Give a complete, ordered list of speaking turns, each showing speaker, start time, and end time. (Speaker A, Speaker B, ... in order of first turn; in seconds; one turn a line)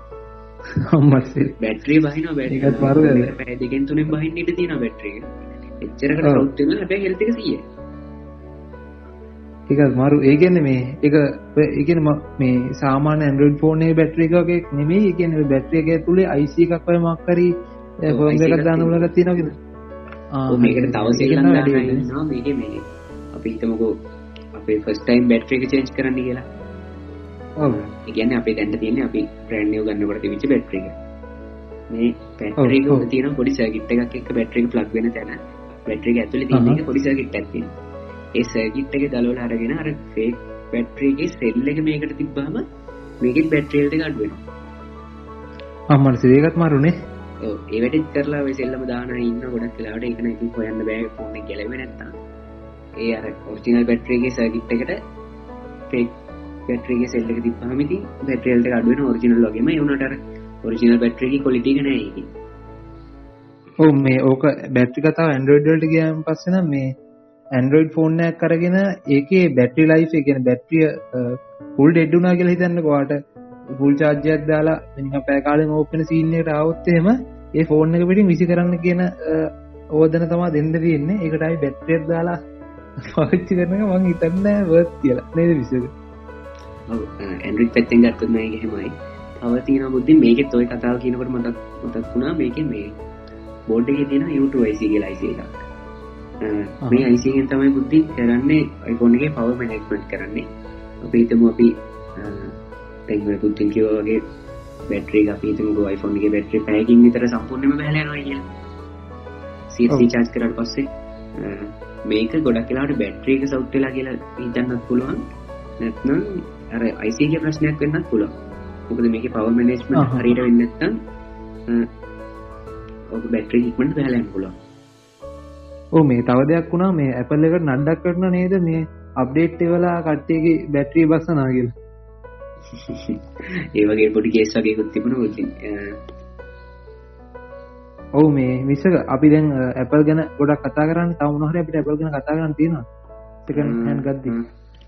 Speaker A: 0.8-1.5
Speaker B: 1.5-5.3
Speaker A: 2.5-3.3
Speaker B: 5.8-7.6
Speaker A: 6.2-6.5
Speaker A: 9.7-17.5
Speaker A: 18.0-19.5
Speaker B: 18.1-19.1
Speaker A: 20.3-22.0
Speaker B: 20.5-24.0
Speaker B: 24.5-26.4
Speaker B: 27.6-30.9
Speaker B: 31.9-37.7
Speaker A: 32.6-33.0
Speaker A: 36.5-36.8
Speaker B: 38.3-42.6
Speaker B: 43.2-44.4
Speaker A: 45.9-46.9
Speaker B: 47.4-52.1
Speaker B: 53.0-55.0
Speaker B: 55.9-56.1
Speaker B: 56.7-62.3
Speaker A: 63.8-66.9
Speaker A: 67.5-73.2
Speaker A: 73.7-82.4
Speaker A: 83.0-85.9
Speaker B: 86.9-92.9
Speaker B: 93.7-95.6
Speaker B: 96.4-100.5
Speaker B: 101.0-102.5
Speaker B: 103.1-104.2
Speaker B: 104.9-108.4
Speaker B: 109.7-115.2
Speaker B: 115.8-118.3
Speaker B: 118.9-121.0
Speaker A: 119.9-120.3
Speaker B: 123.1-124.5
Speaker A: 126.0-131.7
Speaker B: 132.8-136.0
Speaker A: 138.2-142.8
Speaker A: 143.4-144.3
Speaker B: 143.5-144.4